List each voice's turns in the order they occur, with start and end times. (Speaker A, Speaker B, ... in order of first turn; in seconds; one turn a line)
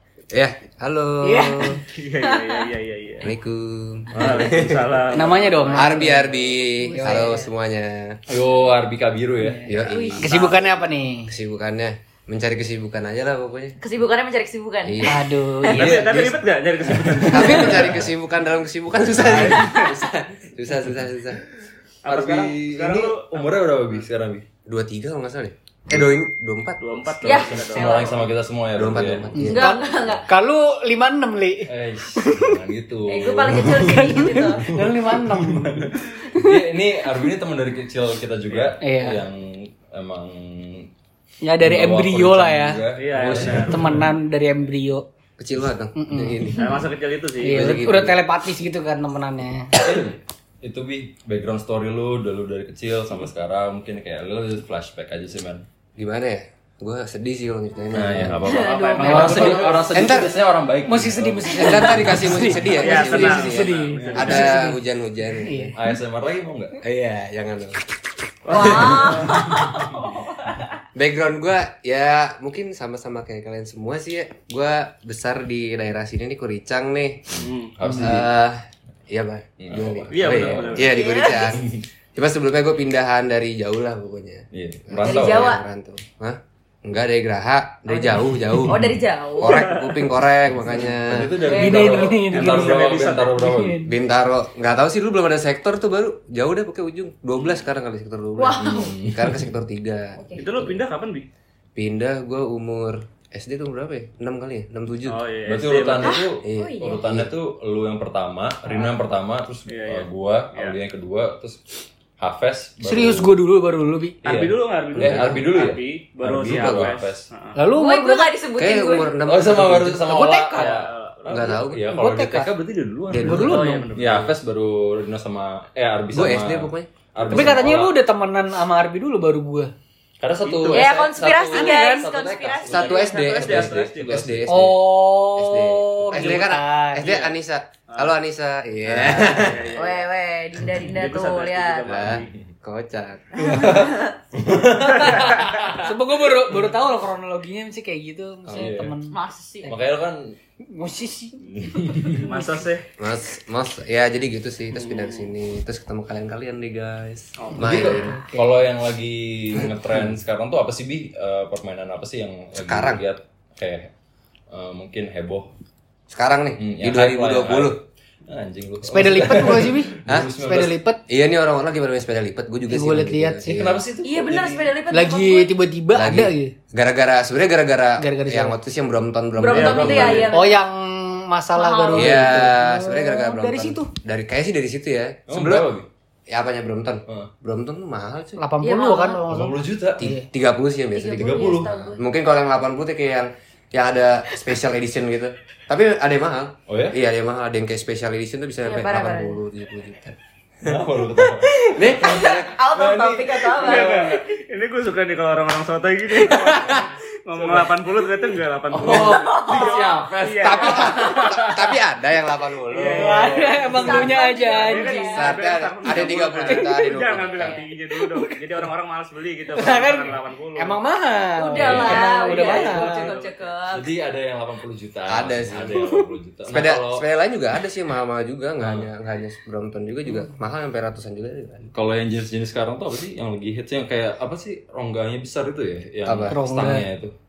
Speaker A: 0.3-1.8
Speaker B: 1.2-2.6
Speaker C: 1.9-3.3
Speaker A: 3.2-5.0
Speaker D: 4.1-4.8
Speaker C: 4.2-5.9
Speaker E: 5.1-7.5
Speaker A: 5.7-8.2
Speaker D: 8.3-9.7
Speaker E: 9.4-11.3
Speaker A: 9.6-10.3
Speaker B: 9.7-10.8
Speaker A: 11.3-13.8
Speaker B: 13.8-15.9
Speaker A: 14.8-16.4
Speaker E: 15.0-15.9
Speaker C: 15.7-18.0
Speaker D: 17.0-18.1
Speaker A: 17.3-21.4
Speaker E: 17.3-17.8
Speaker D: 19.1-19.8
Speaker C: 19.3-19.9
Speaker C: 22.0-24.1
Speaker D: 22.1-24.4
Speaker A: 24.6-27.1
Speaker C: 26.8-28.1
Speaker D: 27.2-29.6
Speaker B: 27.2-28.3
Speaker A: 28.7-29.6
Speaker E: 29.3-32.5
Speaker B: 29.4-30.3
Speaker D: 31.6-40.9
Speaker B: 33.0-34.7
Speaker E: 33.8-36.6
Speaker C: 38.5-38.7
Speaker E: 38.8-39.2
Speaker E: 41.4-42.8
Speaker D: 41.6-44.1
Speaker C: 42.9-43.8
Speaker A: 43.2-43.7
Speaker E: 43.5-45.0
Speaker A: 45.4-46.8
Speaker E: 46.0-46.6
Speaker C: 46.6-47.8
Speaker E: 47.4-49.7
Speaker A: 47.4-48.2
Speaker D: 49.7-55.6
Speaker A: 56.0-58.5
Speaker D: 57.9-62.2
Speaker B: 58.4-59.7
Speaker C: 58.7-60.0
Speaker A: 59.9-60.4
Speaker E: 60.9-64.8
Speaker A: 61.5-65.7
Speaker C: 62.8-64.4
Speaker D: 63.0-63.4
Speaker D: 63.9-64.5
Speaker E: 65.4-65.8
Speaker D: 65.7-66.8
Speaker A: 66.8-67.8
Speaker C: 68.5-69.5
Speaker B: 68.5-70.8
Speaker D: 69.8-70.1
Speaker A: 70.9-77.4
Speaker D: 77.3-78.3
Speaker C: 77.4-77.7
Speaker E: 77.8-78.1
Speaker A: 78.0-91.6
Speaker D: 79.6-80.9
Speaker C: 80.1-80.9
Speaker B: 80.8-81.5
Speaker D: 81.5-81.8
Speaker D: 84.5-85.6
Speaker B: 85.0-85.6
Speaker B: 88.6-89.7
Speaker D: 88.7-89.0
Speaker C: 89.5-89.8
Speaker D: 90.7-93.8
Speaker B: 91.4-92.1
Speaker E: 91.5-94.0
Speaker C: 92.3-93.5
Speaker A: 93.8-100.8
Speaker B: 98.4-99.0
Speaker D: 98.5-99.5
Speaker B: 100.2-100.5
Speaker C: 100.4-101.3
Speaker A: 101.8-105.2
Speaker C: 105.0-106.2
Speaker D: 105.5-113.4
Speaker B: 106.0-107.0
Speaker A: 106.4-107.3
Speaker C: 109.7-110.8
Speaker E: 112.8-114.2
Speaker D: 114.2-117.3
Speaker C: 114.2-117.6
Speaker A: 115.0-115.5
Speaker A: 116.5-117.0
Speaker E: 117.5-118.4
Speaker B: 117.7-119.2
Speaker A: 118.5-120.1
Speaker D: 119.2-128.0
Speaker E: 120.0-120.9
Speaker C: 120.5-121.7
Speaker A: 121.3-121.9
Speaker E: 121.9-122.5
Speaker A: 123.1-124.3
Speaker E: 123.1-123.9
Speaker C: 123.4-124.3
Speaker A: 126.1-127.8
Speaker E: 127.3-129.7
Speaker D: 130.2-134.5
Speaker A: 130.4-130.8
Speaker B: 130.6-133.0
Speaker E: 131.5-132.1
Speaker A: 132.6-139.7
Speaker C: 132.7-134.3
Speaker E: 134.5-137.2
Speaker C: 137.0-137.3
Speaker D: 138.9-139.5
Speaker C: 139.3-140.0
Speaker B: 139.7-141.9
Speaker C: 140.8-142.3
Speaker A: 141.8-143.3
Speaker D: 142.0-142.4
Speaker B: 143.3-144.2
Speaker E: 143.4-143.8
Speaker D: 143.4-145.9
Speaker C: 144.7-145.7
Speaker E: 144.9-149.2
Speaker D: 146.5-146.8
Speaker A: 148.5-148.8
Speaker D: 148.5-148.9
Speaker B: 149.1-149.8
Speaker D: 149.6-150.4
Speaker E: 150.6-152.5
Speaker D: 151.5-152.3
Speaker C: 152.2-152.8
Speaker A: 153.0-158.2
Speaker C: 154.8-155.3
Speaker C: 157.4-157.9
Speaker D: 157.6-163.9
Speaker E: 157.8-158.5
Speaker A: 162.6-163.0
Speaker D: 164.5-165.5
Speaker A: 166.1-167.8
Speaker D: 166.6-170.8
Speaker E: 168.9-171.0
Speaker A: 170.1-170.3
Speaker A: 171.1-173.8
Speaker E: 172.7-173.7
Speaker D: 173.5-174.7
Speaker B: 174.0-175.6
Speaker E: 174.9-176.5
Speaker A: 175.9-180.3
Speaker E: 178.0-178.6
Speaker B: 179.3-180.6
Speaker C: 179.5-180.3
Speaker D: 179.7-180.3
Speaker E: 180.3-183.9
Speaker B: 181.5-182.5
Speaker A: 181.9-185.7
Speaker D: 185.3-185.9
Speaker A: 186.3-188.4
Speaker E: 188.4-190.2
Speaker B: 188.6-189.3
Speaker D: 189.3-190.1
Speaker A: 190.0-200.8
Speaker B: 190.9-192.0
Speaker D: 191.1-191.7
Speaker D: 196.7-197.0
Speaker B: 198.6-199.4
Speaker D: 200.6-204.2
Speaker A: 201.6-202.6
Speaker B: 202.4-204.1
Speaker C: 203.6-211.7
Speaker A: 206.2-206.9
Speaker D: 207.3-207.7
Speaker D: 208.7-211.3
Speaker B: 208.9-210.0
Speaker A: 210.4-213.4
Speaker C: 212.7-213.8
Speaker E: 212.9-215.1
Speaker B: 213.2-215.3
Speaker C: 214.5-220.8
Speaker A: 215.0-217.6
Speaker E: 216.4-216.9
Speaker B: 217.3-217.6
Speaker E: 217.9-218.4
Speaker E: 219.6-223.1
Speaker B: 221.4-223.9
Speaker D: 221.6-222.0
Speaker C: 221.7-223.3
Speaker D: 223.7-227.0
Speaker A: 225.1-225.8
Speaker E: 225.8-226.1
Speaker A: 226.5-231.7
Speaker D: 228.6-228.9
Speaker D: 231.7-237.1
Speaker A: 236.1-236.4
Speaker E: 236.3-236.9